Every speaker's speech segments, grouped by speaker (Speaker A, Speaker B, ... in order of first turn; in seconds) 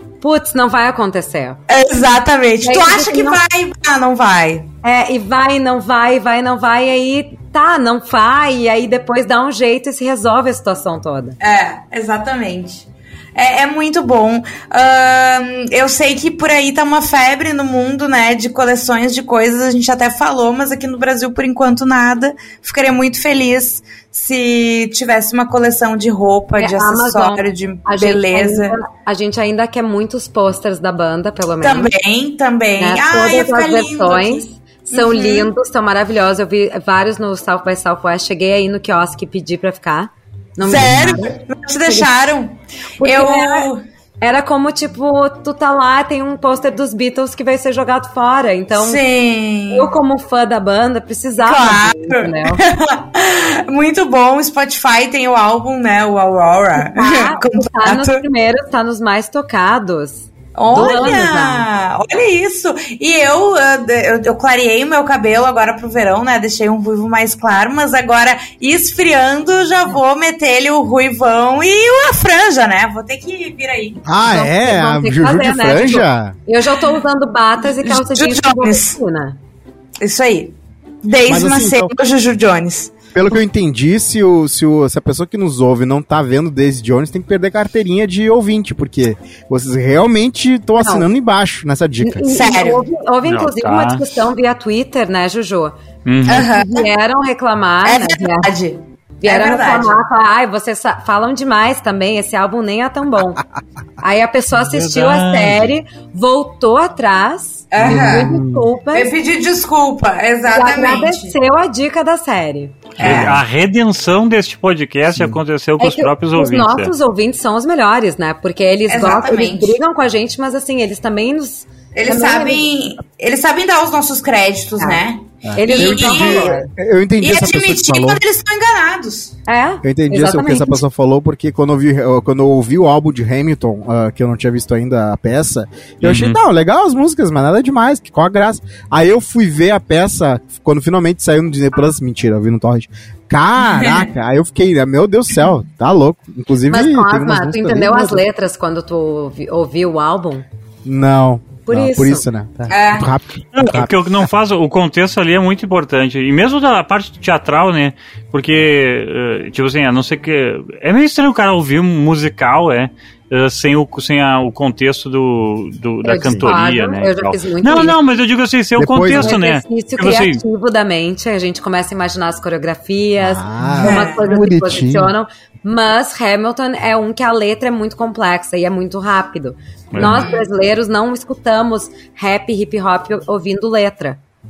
Speaker A: 0.2-1.6, 2.6-3.4, 4.8-11.4, 26.6-31.9, 32.8-42.1, 43.0-43.7, 44.2-49.0, 49.7-52.6, 56.8-61.6, 74.2-79.4, 90.8-91.1, 92.0-95.8, 96.3-98.5, 99.2-103.4, 104.0-109.1, 110.5-112.9, 115.8-122.6, 125.5-126.7, 129.4-130.8, 146.7-150.4, 151.7-152.2, 166.0-168.0, 169.1-184.2
Speaker B: 1.7-4.7, 11.4-28.8, 31.6-35.5, 40.6-43.8, 48.7-49.9, 51.4-58.2, 60.5-74.0, 77.8-79.0, 80.0-83.0, 92.3-92.8, 96.3-96.9, 97.8-100.0, 107.7-108.3, 108.9-111.3, 113.0-113.4, 118.9-119.8, 121.9-126.5, 127.2-129.3, 143.6-144.1, 152.7-153.1, 173.8-174.2, 180.0-180.4
Speaker C: 74.0-76.3, 81.3-81.9, 83.1-92.2, 107.8-108.7, 113.0-113.4, 125.4-128.2, 129.8-148.2, 150.8-153.9, 168.8-169.3, 173.2-175.1
Speaker D: 93.2-94.0, 96.0-96.5, 104.7-105.7, 113.0-116.9, 136.0-136.4, 153.5-170.4, 179.9-180.3